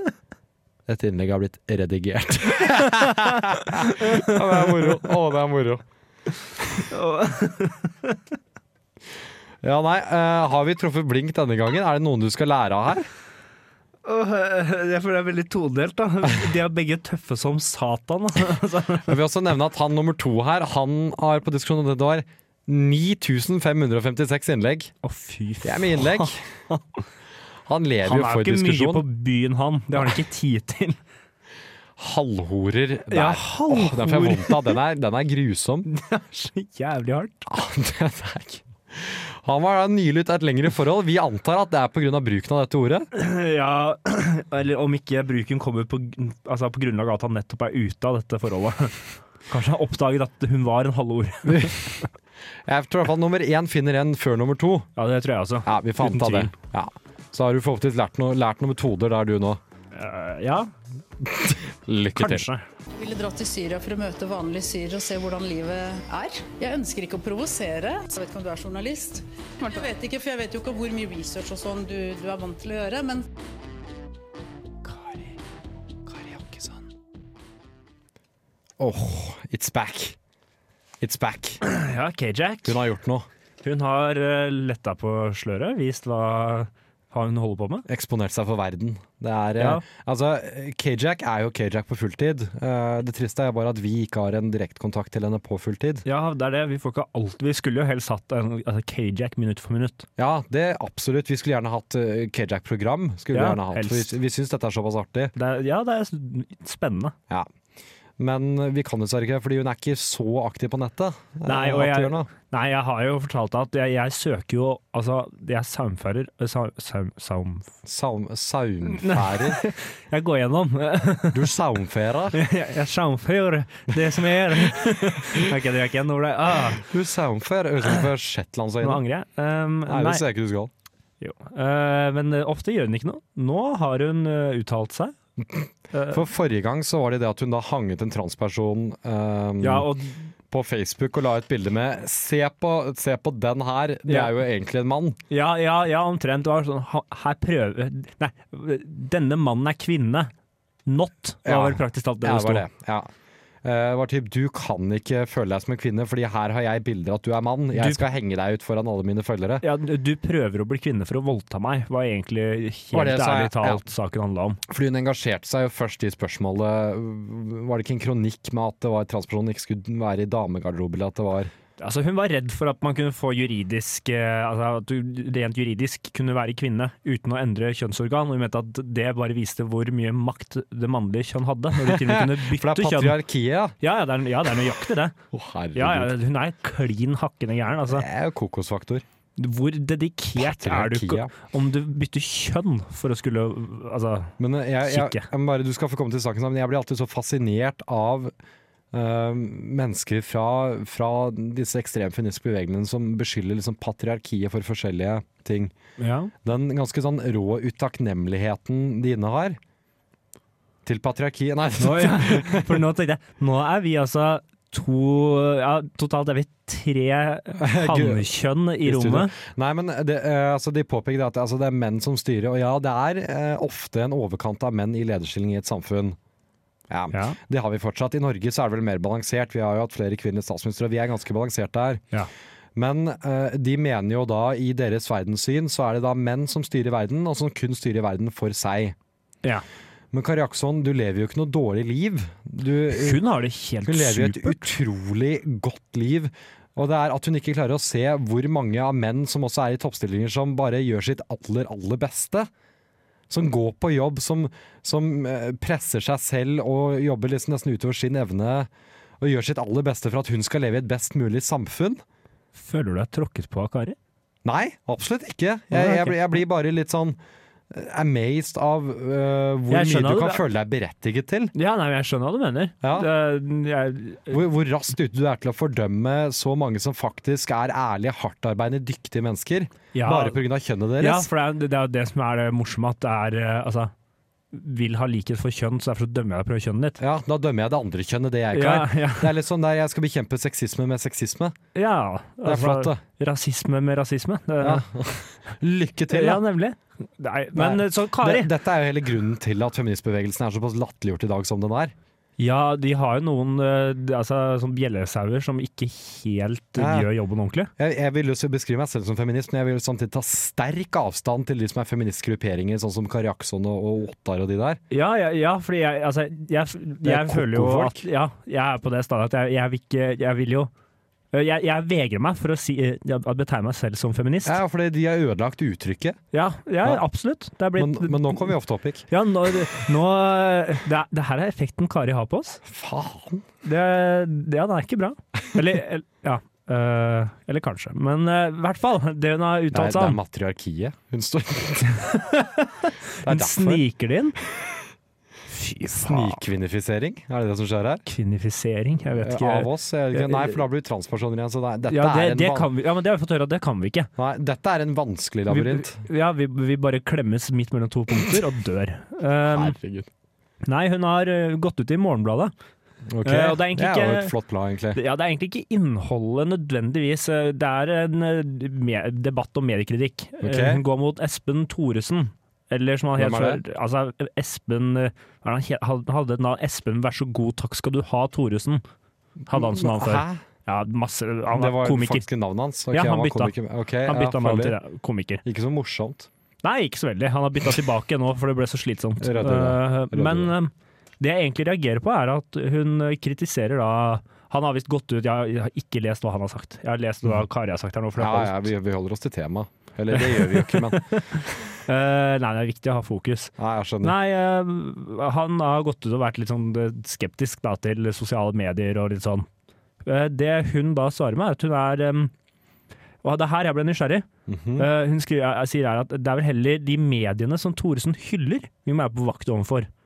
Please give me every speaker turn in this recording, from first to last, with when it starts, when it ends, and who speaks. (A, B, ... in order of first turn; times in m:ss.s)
0:00.9-0:05.8 A
0:03.2-0:04.9 B
0:06.9-0:08.2 B
0:09.6-0:13.1 A
0:14.0-0:19.2 B
0:19.0-0:24.9 A
0:25.0-0:27.0 B
0:25.6-0:26.4 A
0:27.7-0:29.0 A
0:28.0-0:31.0 B
0:32.0-0:35.9 A
0:33.1-0:34.8 B
0:35.9-0:37.5 B
0:37.5-0:43.1 A
0:43.1-0:52.0 B
0:51.5-0:51.7 A
0:52.7-0:54.9 A
0:55.0-0:56.5 B
0:55.7-0:59.6 A
0:59.9-1:00.7 B
1:01.3-1:02.5 A
1:02.2-1:02.6 B
1:02.9-1:13.3 C
1:14.9-1:15.3 B
1:16.1-1:16.8 B
1:18.8-1:20.2 A
1:21.0-1:21.6 A
1:21.6-1:22.8 B
1:22.6-1:23.3 A
1:23.6-1:27.8 B
1:27.9-1:36.0 A
1:29.6-1:29.8 B
1:36.0-1:40.1 B
1:40.2-1:45.4 A
1:43.3-1:44.1 B
1:45.4-1:47.2 B
1:48.2-1:52.3 A
1:51.5-1:57.7 B
1:57.8-1:59.6 A
1:58.8-2:01.5 B
2:01.3-2:02.4 A
2:02.3-2:06.9 B
2:06.8-2:09.0 A
2:08.8-2:10.2 B
2:09.9-2:10.7 A
2:11.2-2:15.2 B
2:15.4-2:19.9 A
2:15.9-2:16.2 B
2:19.6-2:20.3 B
2:20.5-2:25.2 A
2:24.1-2:24.4 B
2:25.3-2:30.3 B
2:30.9-2:32.6 B
2:31.4-2:33.1 A
2:33.6-2:39.6 A
2:37.8-2:38.0 B
2:39.6-2:44.6 B
2:42.9-2:43.8 A
2:44.7-2:51.5 A
2:51.8-3:03.2 B
3:01.8-3:03.8 A
3:03.8-3:05.2 B
3:05.3-3:06.2 A
3:05.8-3:08.1 B
3:07.9-3:09.0 A
3:09.4-3:15.3 B
3:10.4-3:11.3 A
3:14.4-3:18.3 A
3:18.9-3:25.7 A
3:26.0-3:26.3 B
3:26.4-3:29.6 A
3:30.8-3:32.8 A
3:31.8-3:39.4 B
3:37.6-3:38.3 A
3:38.8-3:46.2 A
3:46.9-3:52.0 A
3:47.1-3:47.4 B
3:52.8-3:59.0 A
4:00.1-4:03.2 A
4:02.9-4:04.7 B
4:03.8-4:12.5 A
4:13.3-4:18.7 A
4:19.2-4:22.0 A
4:22.6-4:24.0 B
4:24.4-4:27.2 A
4:25.7-4:26.4 B
4:27.7-4:31.5 A
4:29.7-4:30.4 B
4:31.6-4:34.4 B
4:32.8-4:33.1 A
4:34.3-4:41.3 A
4:39.9-4:40.4 B
4:41.0-4:43.9 B
4:44.5-4:47.0 B
4:47.0-4:51.6 A
4:48.5-4:49.3 B
4:51.8-4:54.8 B
4:52.4-4:53.0 A
4:54.6-4:56.4 A
4:56.1-4:58.5 B
4:57.6-5:01.9 A
5:02.4-5:07.7 B
5:06.8-5:07.1 A
5:07.8-5:14.8 A
5:14.9-5:20.7 B
5:17.0-5:18.0 A
5:21.3-5:24.6 B
5:24.4-5:26.2 A
5:26.3-5:28.5 B
5:27.8-5:29.0 A
5:29.1-5:32.6 B
5:32.6-5:33.4 A
5:33.6-5:40.2 B
5:39.7-5:42.1 A
5:41.9-5:44.4 B
5:43.2-5:43.8 A
5:45.5-5:46.4 B
5:46.1-5:48.0 A
5:48.1-5:50.6 B
5:49.2-5:52.7 A
5:51.9-5:54.1 B
5:54.2-5:56.0 A
5:55.5-5:59.8 B
5:59.5-6:00.1 A
6:00.6-6:02.5 B
6:03.1-6:05.0 A
6:03.2-6:04.3 B
6:05.0-6:18.8 B
6:10.4-6:10.8 A
6:13.2-6:13.6 A
6:19.5-6:20.4 A
6:19.5-6:22.3 B
6:21.5-6:24.8 A
6:22.9-6:23.5 B
6:24.0-6:25.4 B
6:25.4-6:26.3 A
6:26.6-6:38.7 B
6:29.2-6:30.5 A
6:38.2-6:41.2 A
6:40.1-6:49.5 B
6:43.6-6:44.2 A
6:50.0-6:52.3 B
6:53.2-6:54.3 B
6:54.5-6:54.9 A
6:54.8-6:59.9 B